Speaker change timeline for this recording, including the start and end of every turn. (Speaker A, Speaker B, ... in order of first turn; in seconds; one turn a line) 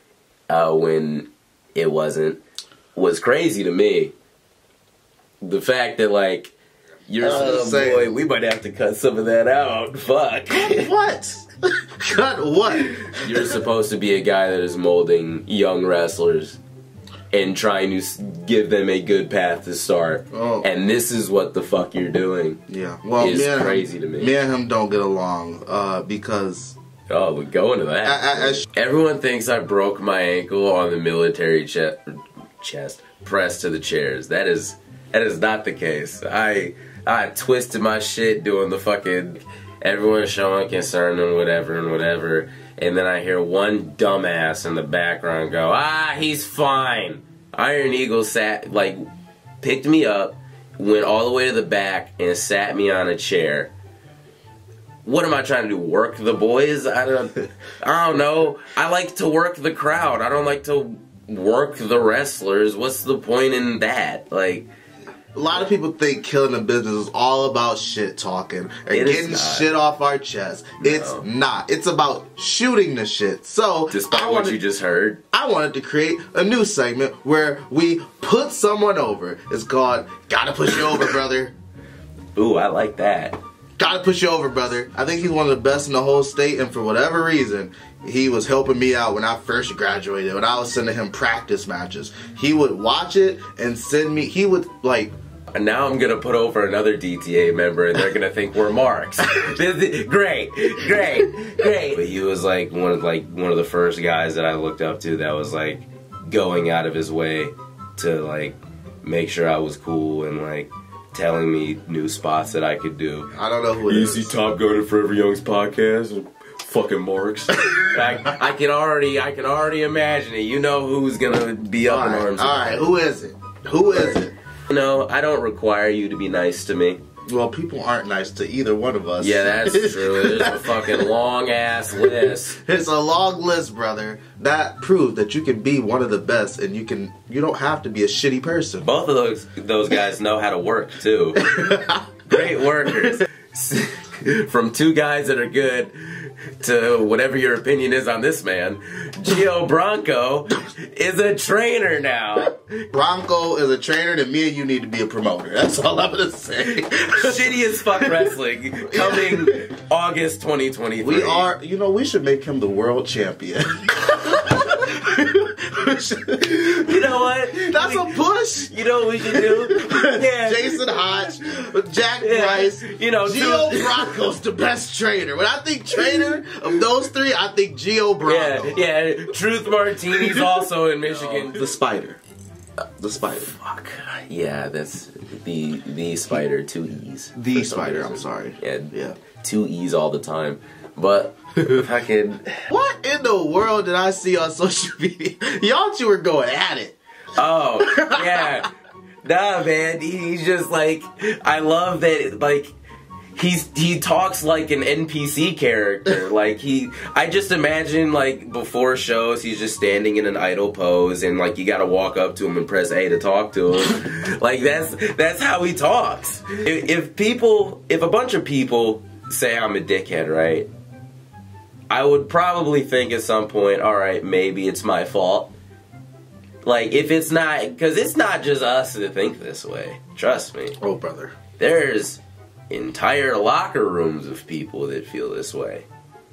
Speaker A: 0.5-2.4
Speaker A: 3.0-4.1
Speaker A: 5.4-6.5
Speaker A: 7.1-10.9
Speaker B: 7.2-8.1
Speaker B: 10.5-13.6
Speaker A: 13.1-16.6
Speaker A: 17.3-22.6
Speaker B: 20.3-20.7
Speaker B: 22.7-26.8
Speaker A: 23.2-24.3
Speaker A: 27.1-49.1
Speaker B: 28.0-28.6
Speaker A: 49.6-53.7
Speaker A: 55.0-64.7
Speaker B: 65.3-74.6
Speaker A: 68.9-69.7
Speaker A: 70.8-71.2
Speaker A: 73.9-75.2
Speaker B: 75.3-81.5
Speaker A: 82.3-83.4
Speaker B: 83.8-95.1
Speaker A: 95.5-113.3
Speaker B: 113.3-114.3
Speaker A: 113.8-122.8
Speaker B: 117.7-118.0
Speaker B: 121.8-124.3
Speaker A: 123.9-127.0
Speaker B: 127.3-131.1
Speaker A: 129.2-132.6
Speaker B: 131.9-138.9
Speaker A: 138.8-141.4
Speaker B: 141.4-142.3
Speaker A: 142.3-152.6
Speaker B: 152.9-158.3
Speaker A: 156.9-161.5
Speaker B: 158.8-159.6
Speaker B: 161.0-168.7
Speaker A: 166.5-171.4
Speaker B: 169.2-178.8
Speaker A: 172.2-174.2
Speaker A: 178.2-181.6
Speaker B: 180.1-182.2
Speaker B: 183.0-183.5
Speaker A: 183.3-192.6
Speaker B: 187.3-189.2
Speaker B: 192.7-196.9
Speaker A: 197.3-198.7
Speaker B: 197.8-198.6
Speaker A: 199.2-202.7
Speaker A: 203.3-220.7
Speaker A: 221.9-225.5
Speaker A: 226.6-230.8
Speaker B: 230.8-231.3
Speaker A: 231.6-235.8